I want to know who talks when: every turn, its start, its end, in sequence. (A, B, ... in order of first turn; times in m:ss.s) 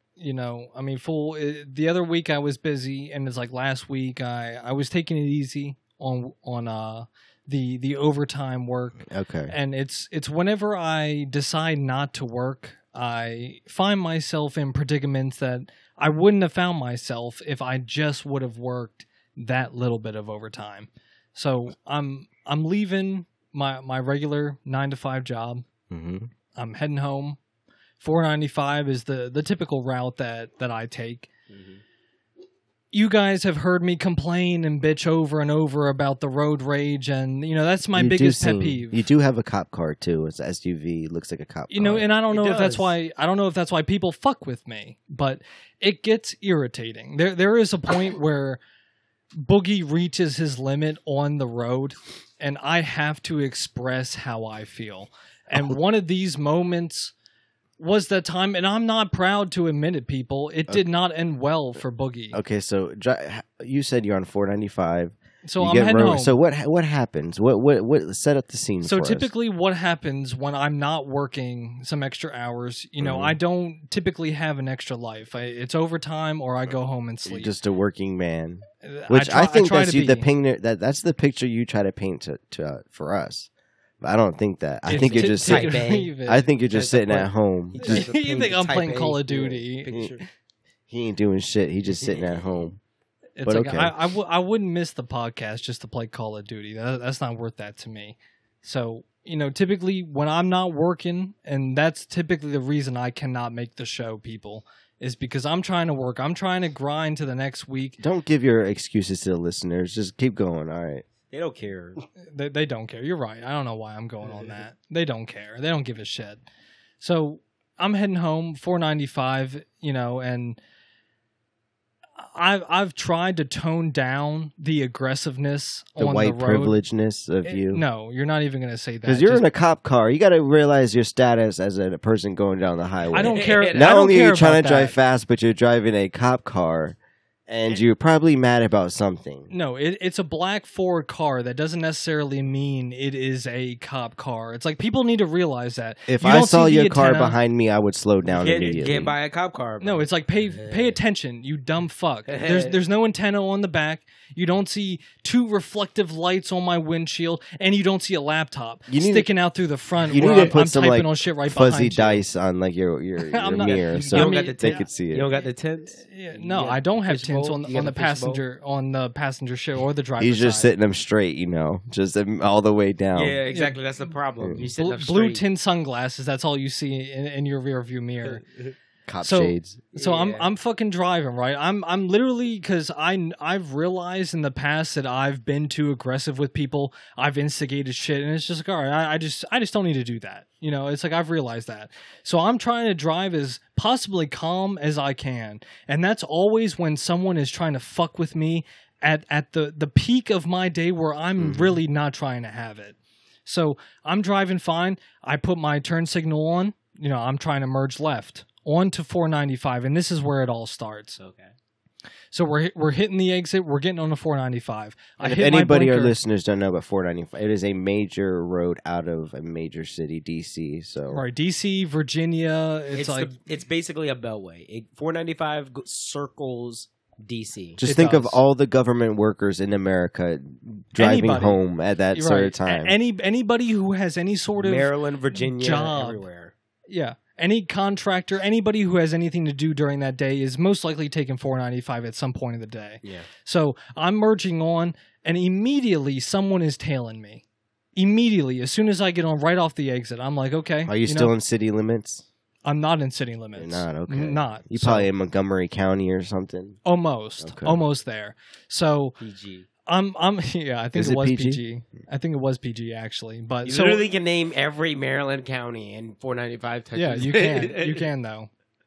0:00.2-0:25.6 A
0:09.1-0:09.5 B
0:25.9-0:26.3 B
0:26.6-0:27.4 A
0:28.0-0:31.3 A
0:31.5-0:31.8 C
0:32.9-0:39.1 A
0:38.0-0:42.0 B
0:41.7-0:48.6 A
0:42.3-0:42.9 C
0:49.4-0:57.1 A
0:57.8-1:02.4 A
1:02.3-1:09.3 B
1:05.4-1:06.4 A
1:08.8-1:17.5 A
1:13.0-1:13.4 B
1:17.3-1:23.5 B
1:18.8-1:20.3 A
1:24.0-1:28.1 B
1:24.9-1:30.2 C
1:24.9-1:26.5 A
1:27.8-1:30.0 A
1:30.9-1:32.8 B
1:32.0-1:32.4 C
1:33.4-1:48.0 A
1:33.4-1:33.9 B
1:48.0-1:51.0 B
1:51.3-1:52.0 C
1:52.3-1:56.4 A
1:57.0-2:00.6 A
2:02.2-2:06.8 A
2:06.0-2:07.8 B
2:07.4-2:09.5 A
2:09.0-2:19.5 B
2:13.1-2:15.0 A
2:13.2-2:13.9 C
2:19.5-2:27.4 A
2:26.1-2:29.1 B
2:28.2-2:30.8 C
2:29.8-2:42.2 A
2:32.3-2:32.8 C
2:38.9-2:39.3 B
2:40.1-2:45.3 B
2:40.1-2:40.6 C
2:43.3-2:44.9 A
2:43.6-2:48.4 C
2:46.0-2:50.7 A
2:50.2-2:53.4 B
2:53.2-2:55.4 C
2:53.5-2:53.8 A
2:54.4-2:54.7 B
2:54.8-2:58.4 A
2:58.2-2:58.7 C
2:59.1-2:59.8 B
2:59.2-3:31.2 A
2:59.9-3:00.5 C
3:21.4-3:21.8 B
3:31.2-3:31.5 C
3:32.3-3:36.2 A
3:35.2-3:41.2 B
3:41.1-3:43.3 A
3:43.0-3:47.8 C
3:47.8-3:53.0 B
3:47.8-3:48.4 A
3:51.0-3:51.6 A
3:52.1-3:54.9 A
3:54.6-3:56.5 C
3:55.5-3:56.2 A
3:56.9-4:07.4 A
4:08.0-4:11.3 A
4:10.9-4:12.2 B
4:12.7-4:15.1 A
4:13.6-4:16.8 B
4:16.8-4:19.2 A
4:17.4-4:17.8 B
4:19.2-4:19.7 C
4:19.9-4:24.0 A
4:21.0-4:21.6 B
4:23.7-4:28.0 C
4:27.0-4:28.5 A